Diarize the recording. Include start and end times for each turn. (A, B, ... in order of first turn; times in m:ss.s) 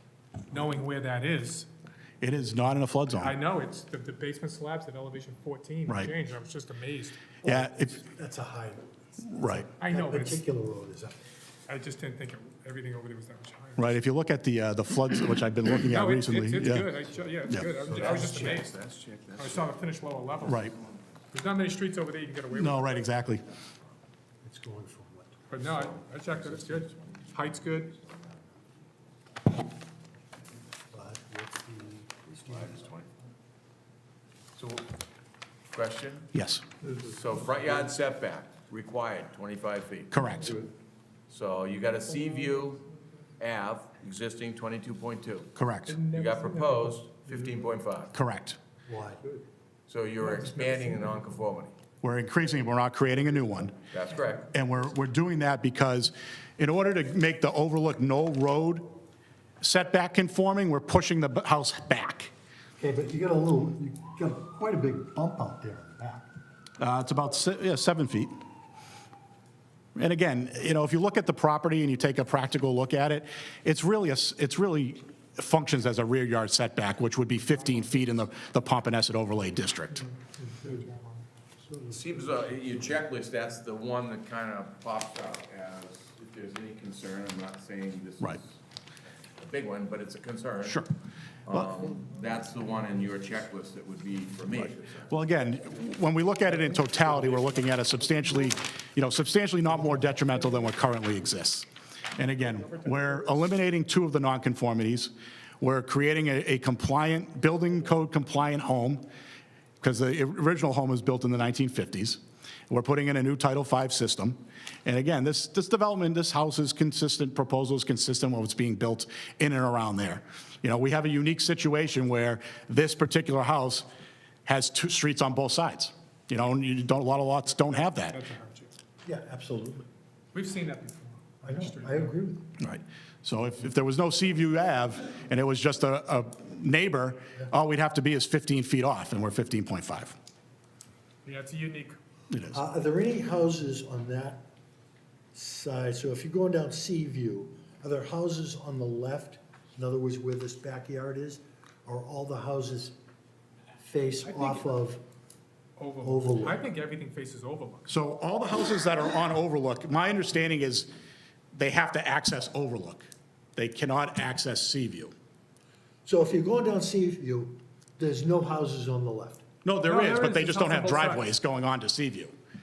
0:00.5-0:01.7 A
0:02.2-0:03.4 B
0:03.2-0:07.2 A
0:07.4-0:08.8 C
0:07.4-0:08.0 B
0:09.3-0:09.7 B
0:09.7-0:11.2 C
0:09.8-0:10.4 A
0:11.7-0:14.0 A
0:13.8-0:16.9 B
0:15.9-0:18.7 A
0:17.8-0:19.7 D
0:18.0-0:18.3 C
0:19.4-0:20.7 A
0:20.5-0:20.7 B
0:21.3-0:23.1 A
0:22.5-0:23.5 B
0:24.4-0:25.4 C
0:25.5-0:28.0 A
0:25.6-0:25.9 D
0:26.4-0:26.9 D
0:30.9-0:32.9 C
0:32.5-0:33.1 D
0:34.6-0:34.9 D
0:35.7-0:36.3 D
0:36.3-0:36.6 B
0:36.9-0:40.1 D
0:40.1-0:40.6 B
0:41.3-0:42.8 D
0:43.4-0:45.5 D
0:45.6-0:46.0 B
0:45.9-0:46.9 A
0:46.1-0:48.1 D
0:48.1-0:48.6 B
0:48.9-0:49.3 C
0:49.9-0:51.7 D
0:52.0-0:53.8 B
0:53.9-0:54.5 D
0:54.5-0:58.9 B
0:59.6-1:02.3 B
1:02.8-1:06.3 C
1:06.8-1:08.4 B
1:10.0-1:20.1 B
1:20.4-1:20.9 C
1:21.6-1:22.3 C
1:21.9-1:28.6 D
1:29.4-1:30.8 D
1:30.6-1:30.9 B
1:31.5-1:35.1 D
1:34.5-1:49.0 B
1:49.8-2:03.9 B
2:04.5-2:08.2 B
2:07.6-2:08.7 A
2:09.0-2:09.9 C
2:10.3-2:12.2 A
2:11.4-2:12.5 C
2:12.6-2:20.2 B
2:21.2-2:22.0 A
2:22.3-2:22.6 B
2:22.5-2:24.4 C
2:25.3-2:33.0 C
2:33.8-2:35.0 C
2:34.2-2:34.7 A
2:35.8-2:37.9 A
2:36.0-2:36.6 C
2:37.9-2:40.9 B
2:41.5-2:45.1 B
2:46.0-2:49.4 C
2:49.6-2:52.3 B
2:49.8-2:51.3 A